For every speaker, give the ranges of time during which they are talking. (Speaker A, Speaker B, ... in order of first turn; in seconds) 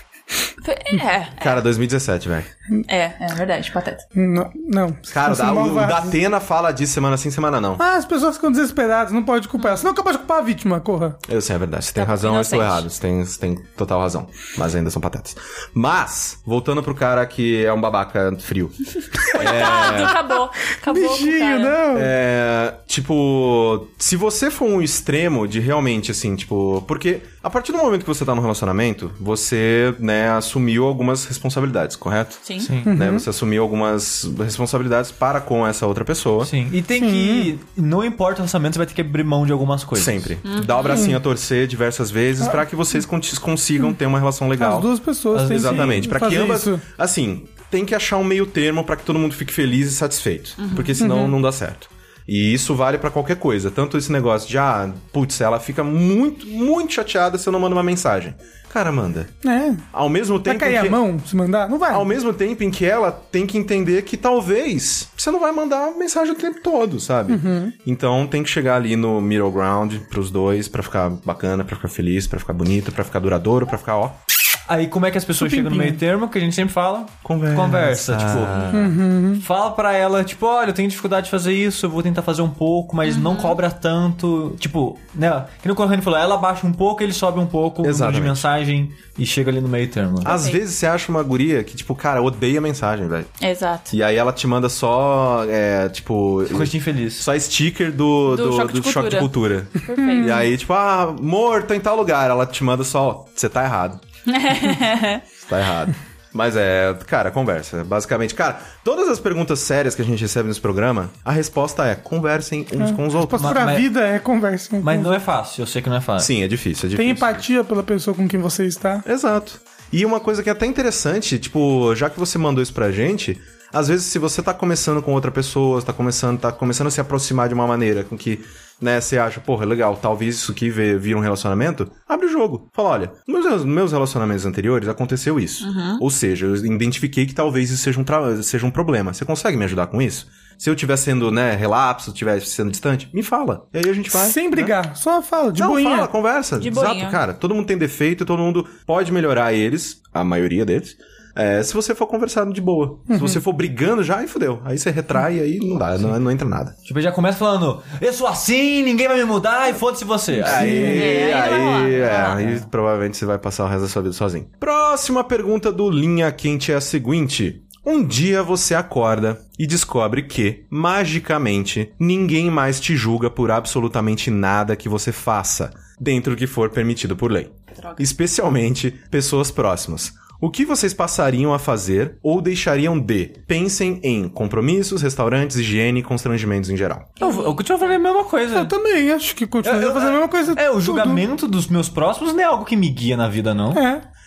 Speaker A: 0.6-1.6, 2.9-4.0, 9.6-9.8, 11.9-12.8, 19.2-21.8, 32.4-32.7, 40.4-41.1, 50.6-50.9, 83.0-83.6, 90.2-90.6, 93.4-93.9, 98.3-100.5, 104.3-105.2, 135.6-136.0, 146.6-147.2, 160.5-162.4, 177.8-178.0, 187.2-187.9
Speaker B: 1.4-2.5, 5.1-7.8, 11.3-20.1, 21.9-36.5, 40.0-59.3, 59.9-61.0, 61.9-74.2, 77.2-78.9, 87.8-88.5, 90.2-93.3, 93.9-104.0, 105.4-113.7, 116.2-117.4, 119.0-144.7, 145.6-156.7, 160.4-187.2
Speaker C: 4.1-6.1, 7.8-11.2, 19.7-20.1, 20.8-22.1, 32.9-33.2, 36.9-37.5, 40.9-41.2, 44.6-46.8, 51.0-51.4, 59.4-59.8, 60.5-62.1, 67.3-67.7, 75.4-76.0, 78.7-79.4, 100.0-100.4, 112.8-115.1, 117.0-119.0, 144.1-146.1, 153.1-153.4, 160.4-161.2, 188.5-191.2, 193.7-194.0
Speaker D: 32.6-32.9, 36.4-40.3, 45.3-46.1, 74.7-78.8, 79.4-90.3, 96.5-97.3, 113.3-113.9, 114.8-116.3, 156.8-160.9, 187.2-188.7, 189.6-193.8